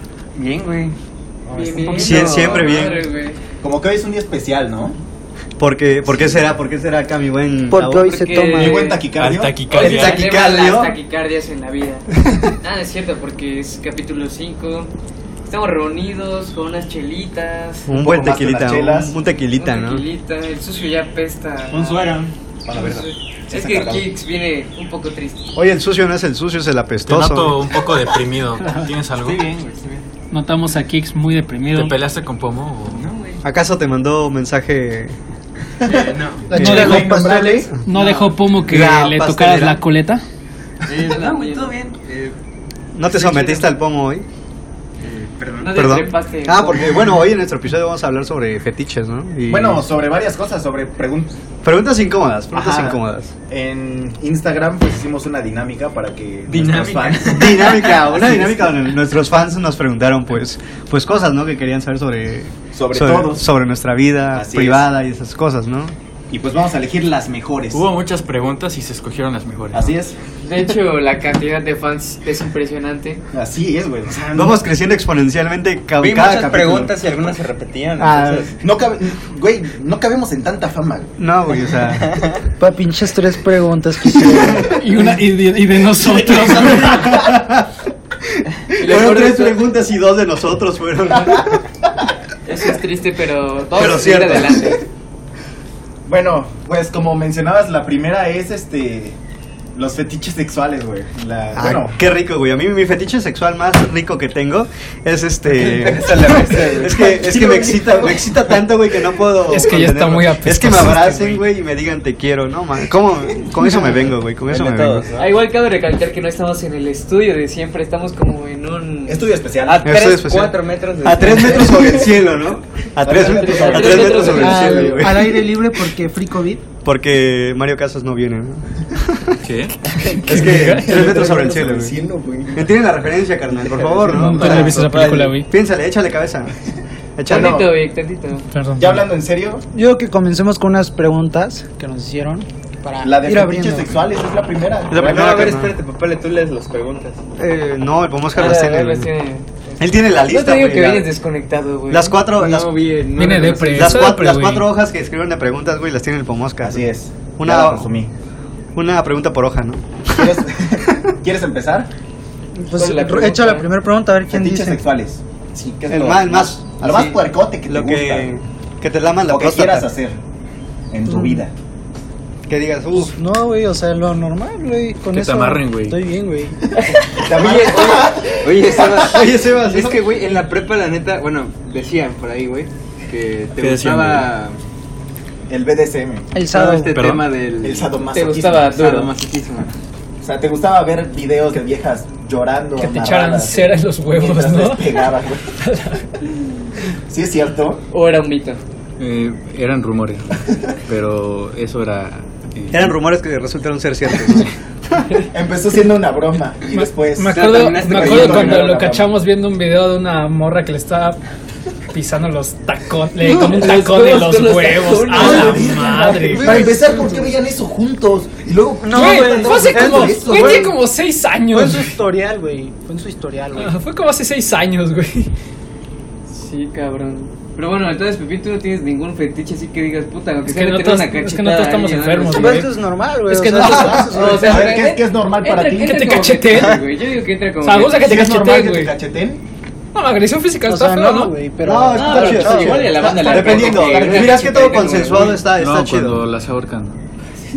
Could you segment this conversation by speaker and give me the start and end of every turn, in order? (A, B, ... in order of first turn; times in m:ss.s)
0:00.3-0:00.9 A
0:01.4-0:02.3 B
0:01.5-0:03.4 C
0:01.7-0:02.8 A
0:02.0-0:03.0 D
0:03.6-0:05.0 B
0:05.6-0:08.1 D
0:06.2-0:06.4 B
0:07.7-0:09.0 E
0:08.0-0:09.0 C
0:08.5-0:09.6 B
0:09.2-0:10.2 F
0:09.7-0:12.1 C
0:09.7-0:11.0 D
0:12.6-0:14.9 C
0:15.5-0:17.9 C
0:17.9-0:20.0 D
0:17.9-0:19.1 B
0:19.5-0:22.2 C
0:21.7-0:22.3 A
0:22.6-0:24.1 B
0:22.7-0:25.4 C
0:25.5-0:27.6 D
0:27.1-0:29.5 F
0:29.1-0:30.0 A
0:30.3-0:32.0 G
0:31.7-0:33.1 F
0:32.9-0:33.4 A
0:33.4-0:35.1 D
0:35.8-0:37.8 B
0:35.8-0:36.5 A
0:36.5-0:37.7 E
0:36.6-0:37.1 D
0:36.6-0:37.0 G
0:37.8-0:40.2 G
0:37.9-0:38.3 A
0:38.6-0:39.8 D
0:40.9-0:42.3 A
0:41.0-0:41.7 C
0:42.9-0:44.2 D
0:43.1-0:43.7 A
0:45.0-0:45.8 A
0:45.6-0:47.2 C
0:45.7-0:49.8 D
0:49.5-0:51.4 B
0:51.6-0:53.3 D
0:52.5-0:58.7 B
0:56.5-0:57.7 A
0:57.3-1:05.9 D
1:02.7-1:03.4 B
1:04.3-1:04.9 B
1:06.3-1:07.8 B
1:07.7-1:09.9 F
1:09.7-1:10.1 B
1:10.4-1:13.2 C
1:13.3-1:14.6 B
1:14.3-1:17.0 D
1:16.0-1:18.5 A
1:18.0-1:18.4 D
1:18.6-1:21.2 B
1:21.2-1:22.2 D
1:21.9-1:22.4 A
1:22.6-1:24.9 E
1:24.6-1:27.3 G
1:26.0-1:27.7 D
1:28.3-1:31.6 D
1:28.8-1:29.6 C
1:32.4-1:34.8 C
1:33.7-1:34.8 D
1:36.0-1:39.2 B
1:39.8-1:42.0 B
1:41.5-1:55.1 D
1:45.5-1:48.3 A
1:47.7-1:48.1 B
1:49.4-1:51.4 G
1:54.4-1:55.3 A
1:55.2-1:59.3 C
1:59.1-2:00.0 B
1:59.6-2:02.0 A
1:59.8-2:05.4 D
2:00.2-2:00.4 C
2:01.0-2:02.0 C
2:03.0-2:04.9 B
2:03.2-2:05.0 C
2:03.5-2:04.5 A
2:04.3-2:06.6 E
2:04.4-2:04.7 G
2:06.8-2:09.4 D
2:09.4-2:09.8 F
2:10.1-2:12.6 A
2:10.2-2:11.1 G
2:10.2-2:12.0 D
2:10.8-2:12.5 B
2:12.5-2:16.5 D
2:13.5-2:15.4 A
2:14.1-2:15.5 G
2:17.2-2:17.7 D
2:17.2-2:18.4 C
2:17.3-2:17.7 B
2:18.5-2:19.0 G
2:18.8-2:19.6 B
2:19.7-2:24.0 E
2:23.0-2:25.5 B
2:24.9-2:25.7 D
2:24.9-2:27.2 A
2:27.4-2:29.1 D
2:28.3-2:32.2 C
2:29.8-2:31.1 D
2:31.9-2:32.7 D
2:32.3-2:34.2 A
2:33.2-2:34.7 G
2:33.7-2:37.9 D
2:36.6-2:38.1 B
2:38.7-2:40.4 D
2:40.1-2:41.9 B
2:42.6-2:44.8 E
2:42.7-2:43.7 C
2:44.3-2:48.3 B
2:45.9-2:49.9 D
2:49.3-2:50.2 B
2:50.9-2:51.5 B
2:51.0-2:51.4 E
2:52.5-2:53.1 D
2:53.0-2:56.6 E
2:55.1-2:56.0 F
2:57.1-2:59.2 B
2:57.2-3:04.6 A
2:59.0-3:00.0 D
3:03.6-3:04.3 F
3:05.5-3:06.3 B
3:06.3-3:07.0 E
3:06.5-3:08.0 A
3:06.9-3:07.3 F
3:07.6-3:08.9 B
3:08.1-3:09.1 C
3:08.7-3:09.7 A
3:10.2-3:15.5 B
3:12.8-3:15.0 G
3:15.6-3:16.0 G
3:17.1-3:17.8 B
3:17.9-3:18.6 C
3:19.0-3:22.9 F
3:22.7-3:25.0 D
3:25.3-3:29.0 B
3:26.7-3:31.2 G
3:27.3-3:29.1 A
3:31.9-3:36.8 G
3:33.2-3:36.2 C
3:35.1-3:40.7 B
3:36.3-3:37.3 E
3:38.8-3:40.8 E
3:38.9-3:42.0 G
3:41.4-3:43.8 E
3:43.5-3:45.3 G
3:46.3-3:52.6 C
3:50.5-3:52.7 G
3:52.3-3:54.8 E
3:53.3-3:54.5 G
3:53.8-3:58.2 C
3:53.8-3:56.1 B
3:55.4-3:56.8 G
3:57.6-3:58.9 G
3:57.9-3:59.4 B
3:59.9-4:01.3 G
4:00.6-4:03.0 E
4:01.6-4:06.2 D
4:01.9-4:05.4 C
4:03.0-4:04.2 A
4:03.1-4:04.4 B
4:05.1-4:07.0 F